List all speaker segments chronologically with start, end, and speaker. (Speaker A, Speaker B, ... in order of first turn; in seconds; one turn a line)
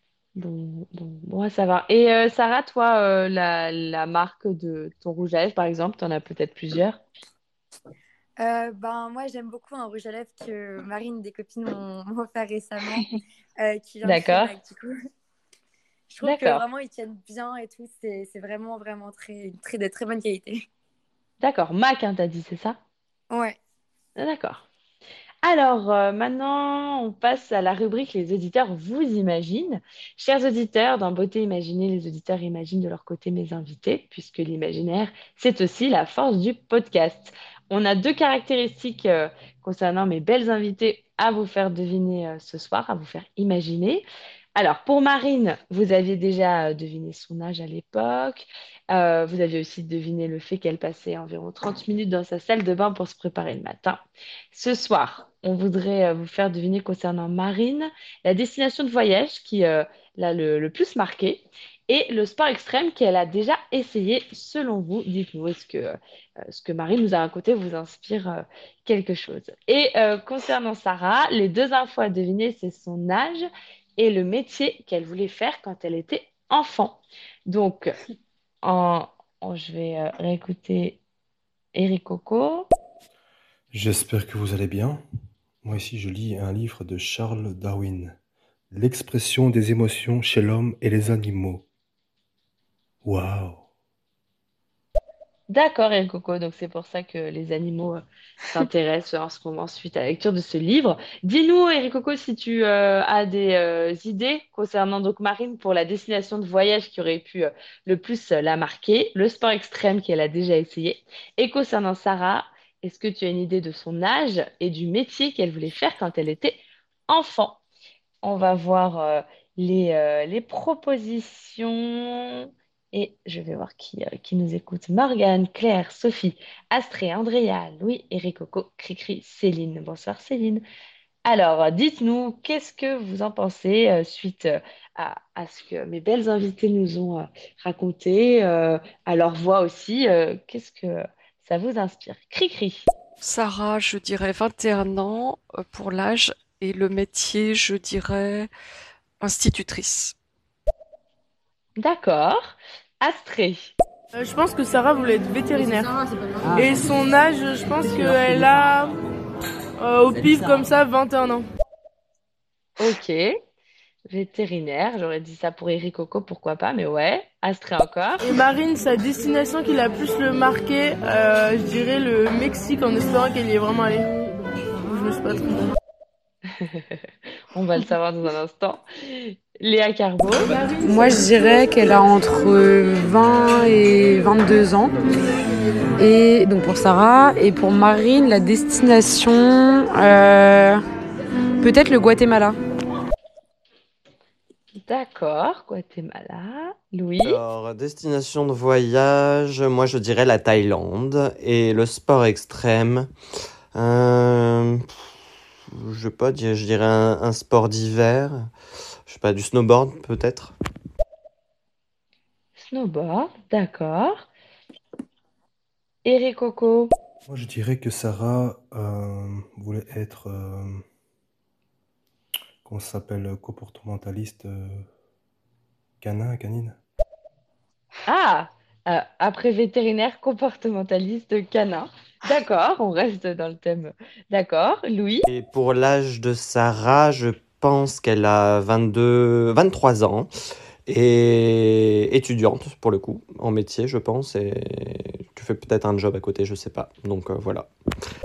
Speaker A: 0.4-7.0
Speaker B: 8.4-13.1
Speaker B: 13.6-14.9
Speaker A: 14.0-14.5
Speaker B: 16.1-20.7
Speaker A: 16.2-16.6
Speaker A: 21.4-22.8
Speaker B: 23.3-23.6
Speaker A: 24.2-24.7
Speaker A: 25.4-44.0
Speaker A: 44.6-73.5
Speaker A: 74.0-78.0
Speaker A: 78.6-81.0
Speaker A: 81.8-82.7
Speaker C: 83.7-85.0
Speaker C: 85.6-88.2
Speaker C: 88.7-91.7
Speaker C: 93.0-93.7
Speaker A: 95.5-117.6
Speaker A: 118.2-130.6
Speaker A: 131.2-142.9
Speaker D: 143.2-148.5
Speaker D: 149.2-150.2
Speaker A: 151.8-153.7
Speaker E: 154.1-155.9
Speaker E: 156.5-159.0
Speaker E: 159.8-161.4
Speaker A: 162.8-163.2
Speaker A: 164.1-168.2
Speaker E: 168.2-174.1
Speaker E: 174.9-175.6
Speaker A: 176.5-180.7
Speaker F: 180.8-185.1
Speaker F: 186.0-190.8
Speaker F: 191.6-192.6
Speaker A: 194.8-197.4
Speaker G: 197.2-203.1
Speaker G: 203.7-205.1
Speaker G: 205.7-208.5
Speaker G: 209.1-210.6
Speaker A: 212.6-214.3
Speaker A: 216.1-216.9
Speaker C: 217.3-220.8
Speaker C: 222.7-224.9
Speaker C: 226.0-226.8
Speaker A: 228.1-235.3
Speaker G: 235.3-240.3
Speaker G: 240.9-247.7